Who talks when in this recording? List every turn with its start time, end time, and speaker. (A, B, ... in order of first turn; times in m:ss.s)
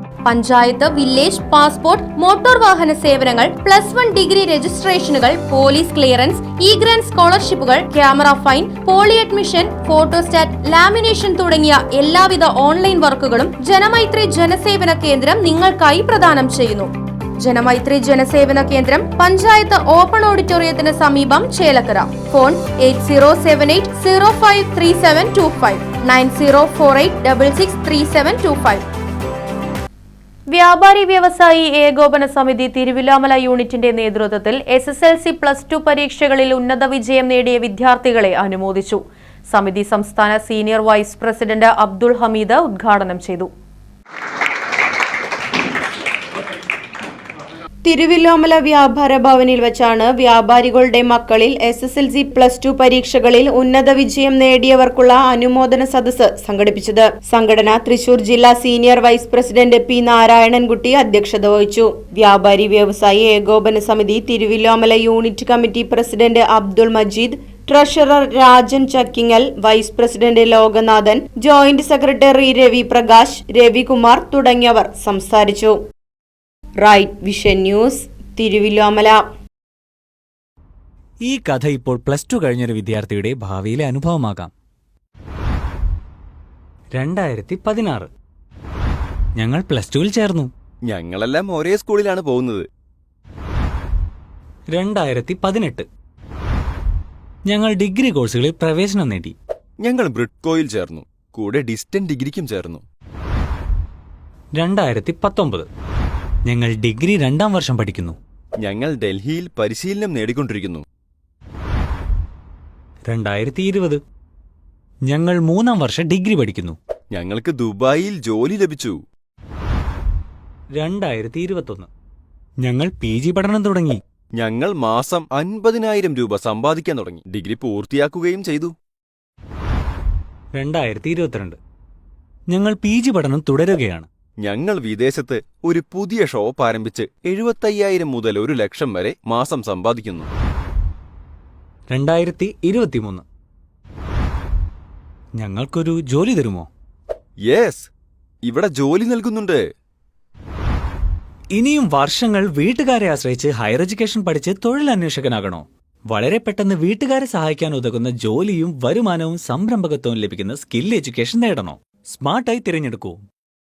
0:00.2-0:28.8 A
0:30.5-0:43.5 A
0:47.8-1:15.8 B
1:16.8-1:19.2 B
1:21.2-1:24.5 C
1:26.9-1:28.1 C
1:29.4-1:30.5 C
1:30.9-1:32.7 D
1:34.7-1:35.8 C
1:37.4-1:39.3 C
1:39.8-1:42.8 D
1:44.6-1:45.6 C
1:46.4-1:48.2 C
1:48.6-1:50.8 D
1:53.1-1:54.0 C
1:55.1-1:56.8 C
1:57.1-1:59.0 D
2:00.7-2:01.9 C
2:02.6-2:04.0 C
2:04.4-2:08.7 D
2:10.6-2:11.6 C
2:12.5-2:14.1 C
2:14.4-2:20.3 D
2:21.9-2:23.2 C
2:25.4-2:26.7 C
2:27.4-2:27.9 D
2:28.4-2:29.6 D
2:31.5-2:43.2 C